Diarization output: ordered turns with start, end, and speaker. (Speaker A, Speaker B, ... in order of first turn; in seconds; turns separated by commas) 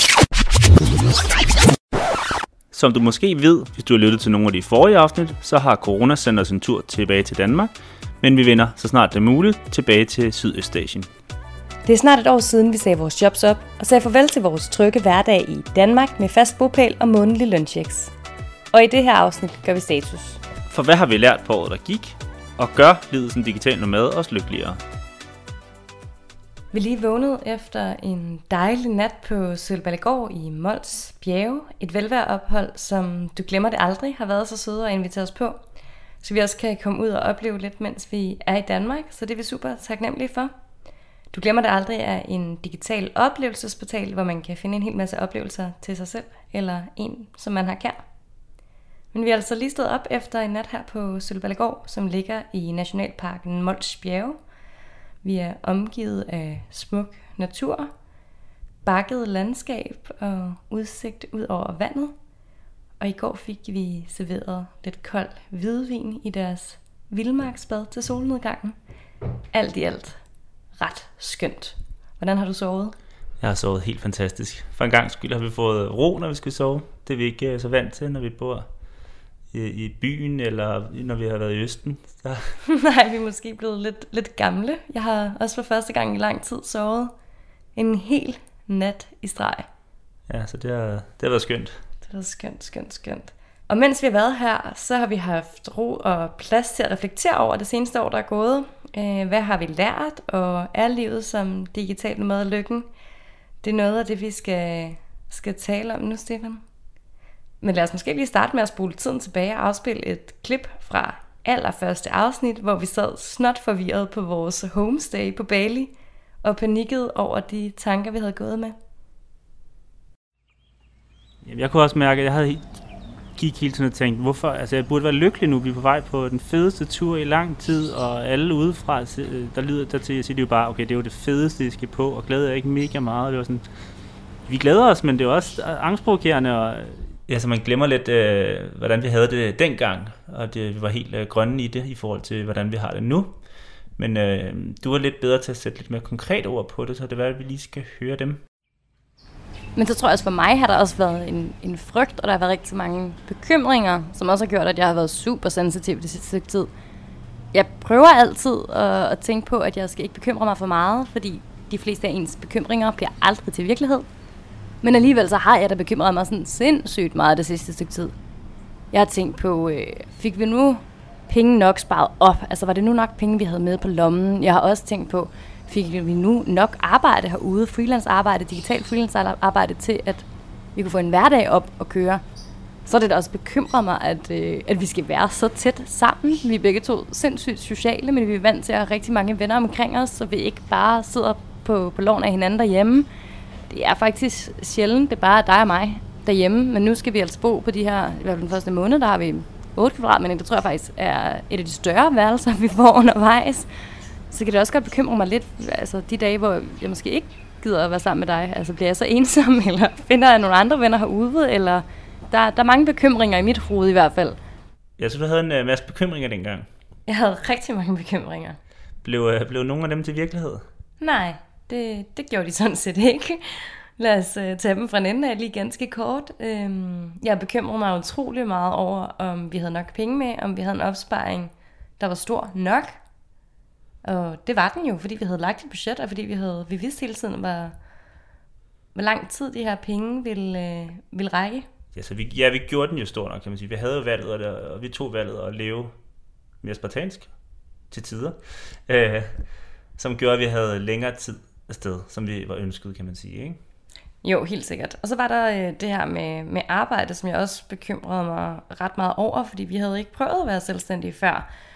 Speaker A: 2.7-11.1, Speaker B: 11.9-18.1, Speaker B: 18.7-20.4, Speaker A: 20.7-24.8, Speaker B: 26.7-35.6, Speaker B: 36.2-40.5, Speaker B: 41.3-48.0, Speaker B: 49.1-54.4, Speaker B: 55.2-57.9, Speaker B: 58.9-62.1, Speaker B: 63.0-68.8, Speaker B: 69.5-70.2, Speaker B: 70.8-73.0, Speaker A: 73.4-78.7, Speaker A: 79.5-82.5, Speaker B: 82.7-87.1, Speaker B: 87.8-89.7, Speaker A: 90.3-91.7, Speaker B: 92.1-102.9, Speaker B: 103.6-106.6, Speaker B: 107.6-115.9, Speaker B: 116.4-118.8, Speaker A: 121.4-122.7, Speaker A: 123.4-133.7, Speaker A: 134.5-143.3, Speaker A: 144.0-148.4, Speaker B: 149.8-156.7, Speaker B: 157.5-164.1, Speaker B: 164.8-168.1, Speaker B: 168.9-182.2, Speaker B: 182.9-193.1, Speaker B: 193.7-203.7, Speaker B: 204.3-214.4, Speaker A: 215.0-216.7, Speaker B: 217.1-218.6, Speaker A: 219.0-220.6, Speaker B: 221.0-233.0, Speaker B: 234.0-237.8, Speaker B: 238.9-241.7, Speaker A: 241.9-245.9, Speaker A: 246.6-247.3, Speaker A: 247.9-249.3, Speaker A: 250.0-253.6, Speaker B: 254.2-261.5